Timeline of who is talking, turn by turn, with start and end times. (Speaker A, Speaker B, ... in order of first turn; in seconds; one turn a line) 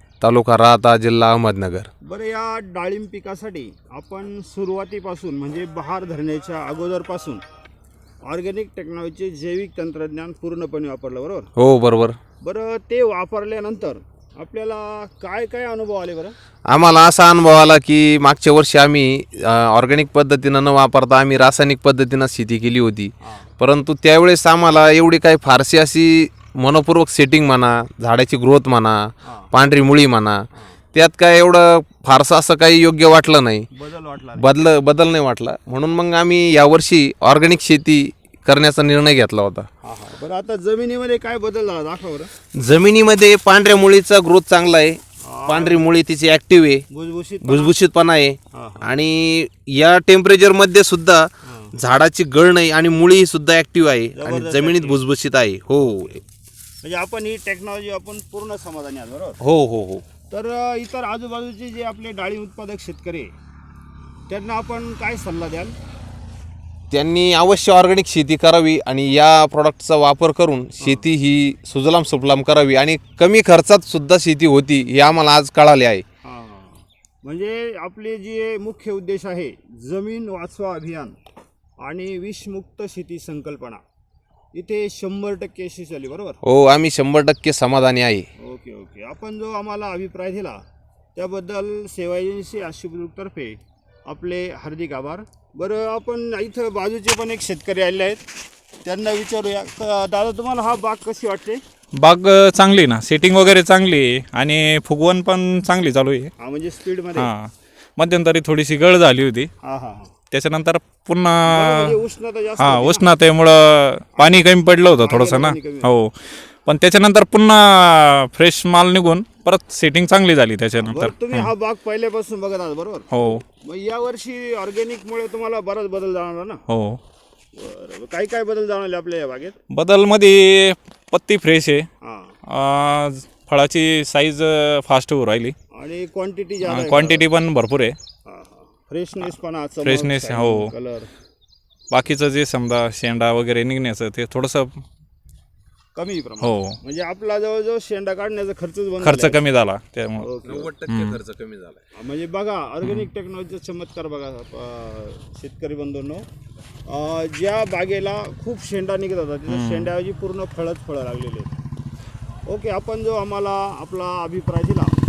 Speaker A: 0.2-1.9
Speaker B: 2.0-7.4
Speaker B: 8.2-11.5
Speaker A: 11.6-12.2
Speaker B: 12.4-16.3
Speaker A: 16.7-29.0
Speaker B: 23.2-23.5
Speaker B: 29.2-29.5
Speaker A: 29.5-30.4
Speaker A: 30.9-33.7
Speaker B: 33.7-34.6
Speaker A: 34.4-39.7
Speaker B: 39.8-42.3
Speaker A: 42.5-46.8
Speaker B: 45.2-45.9
Speaker B: 46.9-47.8
Speaker A: 47.4-56.2
Speaker B: 48.5-48.9
Speaker B: 51.5-51.7
Speaker B: 54.1-55.0
Speaker B: 55.8-56.2
Speaker B: 56.8-59.4
Speaker A: 59.4-60.0
Speaker B: 60.3-63.3
Speaker B: 64.3-65.8
Speaker A: 66.9-76.0
Speaker B: 70.8-71.1
Speaker B: 76.2-81.2
Speaker B: 81.8-83.8
Speaker B: 84.5-86.4
Speaker A: 86.4-88.3
Speaker B: 88.4-90.6
Speaker B: 91.2-98.2
Speaker B: 98.8-101.6
Speaker C: 102.0-106.3
Speaker B: 106.4-107.3
Speaker C: 107.2-109.5
Speaker B: 109.6-110.1
Speaker C: 110.3-112.0
Speaker B: 111.5-113.1
Speaker C: 112.6-121.5
Speaker B: 114.2-114.5
Speaker B: 115.0-115.9
Speaker B: 120.8-126.6
Speaker C: 123.1-123.4
Speaker C: 126.7-127.0
Speaker B: 127.5-129.6
Speaker C: 129.7-131.9
Speaker B: 132.0-132.3
Speaker C: 132.5-135.6
Speaker B: 135.7-137.3
Speaker C: 136.7-138.0
Speaker B: 138.3-141.1
Speaker C: 139.8-140.7
Speaker C: 141.9-144.8
Speaker B: 145.9-149.4
Speaker C: 146.4-146.8
Speaker C: 149.0-150.3
Speaker B: 150.2-150.7
Speaker A: 150.5-151.8
Speaker C: 150.9-151.2
Speaker B: 151.9-156.3
Speaker B: 156.9-161.5
Speaker C: 159.5-159.9
Speaker B: 162.5-164.9